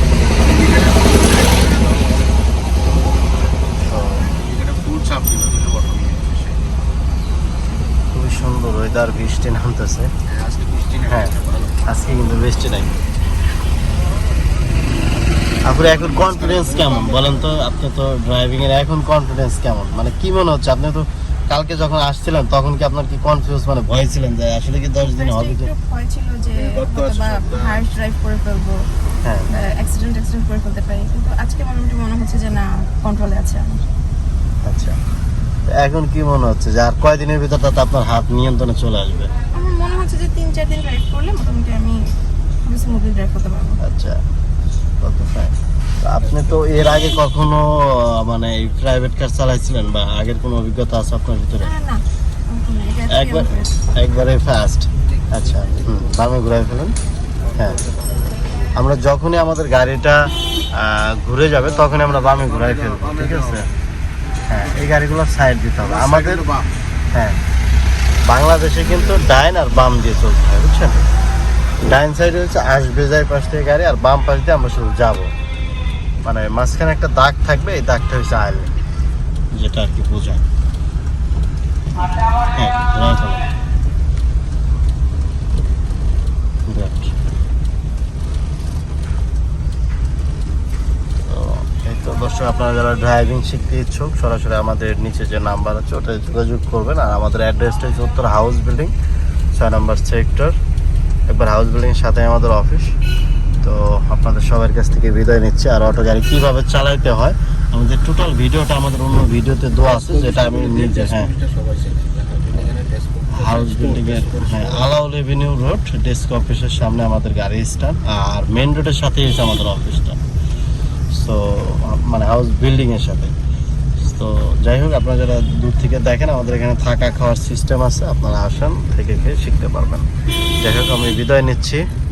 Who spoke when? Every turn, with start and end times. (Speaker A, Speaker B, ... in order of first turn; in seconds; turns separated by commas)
Speaker A: 0.3-2.5, Speaker B: 3.9-4.3, Speaker A: 4.2-6.6, Speaker B: 8.1-10.1, Speaker A: 10.3-11.8, Speaker B: 11.8-13.0, Speaker B: 15.7-25.7, Speaker A: 16.0-17.5, Speaker C: 25.1-28.8, Speaker A: 26.5-27.9, Speaker B: 29.2-29.5, Speaker C: 29.5-33.9, Speaker B: 34.6-35.0, Speaker B: 35.7-39.3, Speaker C: 39.5-42.0, Speaker C: 42.6-43.8, Speaker B: 43.8-44.2, Speaker B: 45.0-51.8, Speaker A: 46.2-46.9, Speaker C: 51.6-53.7, Speaker B: 53.1-57.0, Speaker A: 55.2-56.1, Speaker A: 57.5-58.3, Speaker B: 57.5-57.8, Speaker B: 58.8-63.7, Speaker A: 61.7-63.6, Speaker B: 64.5-66.5, Speaker A: 65.8-66.8, Speaker B: 67.1-67.4, Speaker B: 68.3-71.1, Speaker B: 71.8-75.3, Speaker B: 76.2-78.7, Speaker B: 79.6-80.5, Speaker B: 82.5-83.4, Speaker B: 86.7-87.2, Speaker B: 91.2-98.9, Speaker B: 99.5-100.6, Speaker B: 101.3-102.9, Speaker B: 103.6-111.3, Speaker A: 109.8-114.9, Speaker B: 113.3-120.2, Speaker B: 121.1-123.3, Speaker B: 124.0-130.1, Speaker B: 130.6-131.8